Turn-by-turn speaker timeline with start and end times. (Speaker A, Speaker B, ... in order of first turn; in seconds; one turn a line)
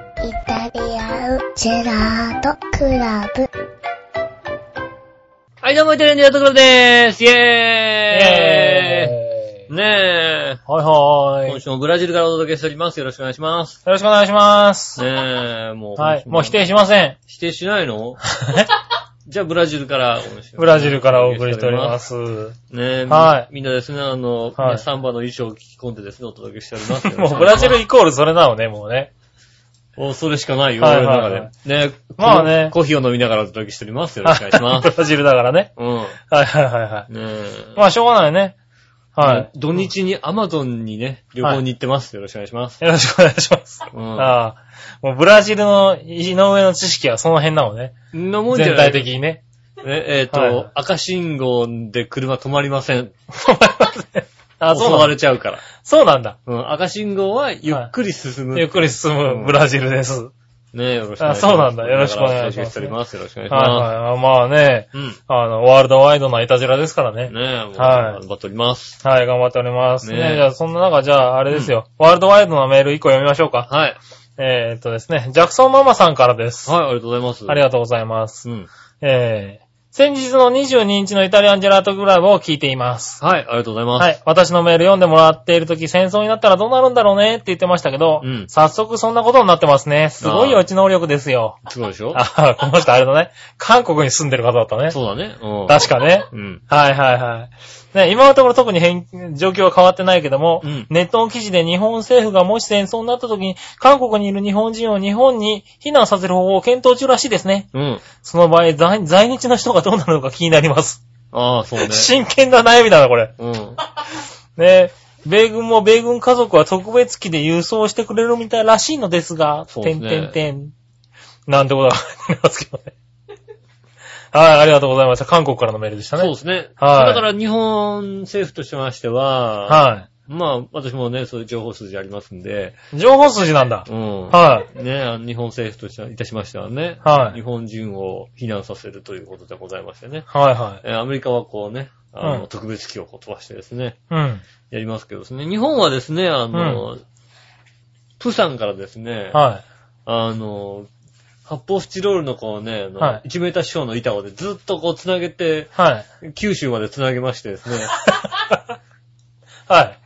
Speaker A: 0.2-3.5
Speaker B: 5.6-9.2
Speaker C: 8.1-9.6
Speaker B: 9.7-10.6
Speaker C: 10.7-11.6
Speaker B: 11.5-13.8
Speaker C: 13.9-15.0
Speaker B: 15.0-16.6
Speaker C: 16.0-17.2
Speaker B: 17.3-18.2
Speaker C: 18.4-18.7
Speaker B: 19.3-22.0
Speaker C: 20.6-22.6
Speaker B: 22.7-27.8
Speaker C: 23.1-23.5
Speaker C: 24.6-24.8
Speaker C: 27.0-29.1
Speaker B: 30.0-34.9
Speaker C: 30.8-31.5
Speaker C: 32.2-32.7
Speaker C: 34.2-35.7
Speaker B: 35.8-36.2
Speaker C: 36.3-37.1
Speaker B: 37.1-37.8
Speaker C: 37.8-38.5
Speaker C: 39.1-39.5
Speaker B: 39.2-42.8
Speaker C: 42.8-48.0
Speaker B: 43.9-44.3
Speaker B: 48.1-49.1
Speaker C: 48.5-49.4
Speaker B: 49.8-53.1
Speaker C: 50.3-50.7
Speaker C: 53.3-55.1
Speaker B: 54.7-55.6
Speaker C: 55.6-56.4
Speaker B: 56.5-59.5
Speaker C: 58.5-60.3
Speaker B: 60.7-63.9
Speaker C: 61.2-62.9
Speaker C: 63.5-68.2
Speaker B: 67.3-69.0
Speaker C: 69.0-73.7
Speaker B: 70.0-70.4
Speaker B: 73.7-74.0
Speaker C: 74.4-76.7
Speaker B: 76.7-77.6
Speaker C: 77.5-78.4
Speaker C: 79.0-83.2
Speaker B: 83.2-84.1
Speaker C: 84.0-91.6
Speaker B: 88.2-88.5
Speaker B: 90.2-90.6
Speaker B: 91.7-92.2
Speaker C: 92.1-95.0
Speaker B: 94.9-96.6
Speaker C: 95.7-111.0
Speaker B: 100.6-100.9
Speaker B: 107.7-108.0
Speaker B: 111.3-112.1
Speaker C: 111.8-113.3
Speaker B: 113.4-113.8
Speaker C: 114.5-120.7
Speaker B: 119.7-120.4
Speaker C: 121.5-122.9
Speaker C: 124.3-127.2
Speaker B: 126.2-132.8
Speaker C: 129.7-130.1
Speaker C: 132.9-134.7
Speaker B: 133.9-140.3
Speaker C: 137.0-137.4
Speaker C: 140.3-140.8
Speaker B: 140.8-144.0
Speaker C: 144.1-144.4
Speaker B: 144.7-147.0
Speaker C: 146.5-146.8
Speaker B: 148.2-149.4
Speaker C: 149.3-149.6
Speaker B: 150.1-150.9
Speaker B: 151.5-157.9
Speaker C: 155.8-156.1
Speaker C: 158.0-158.6
Speaker C: 159.7-160.0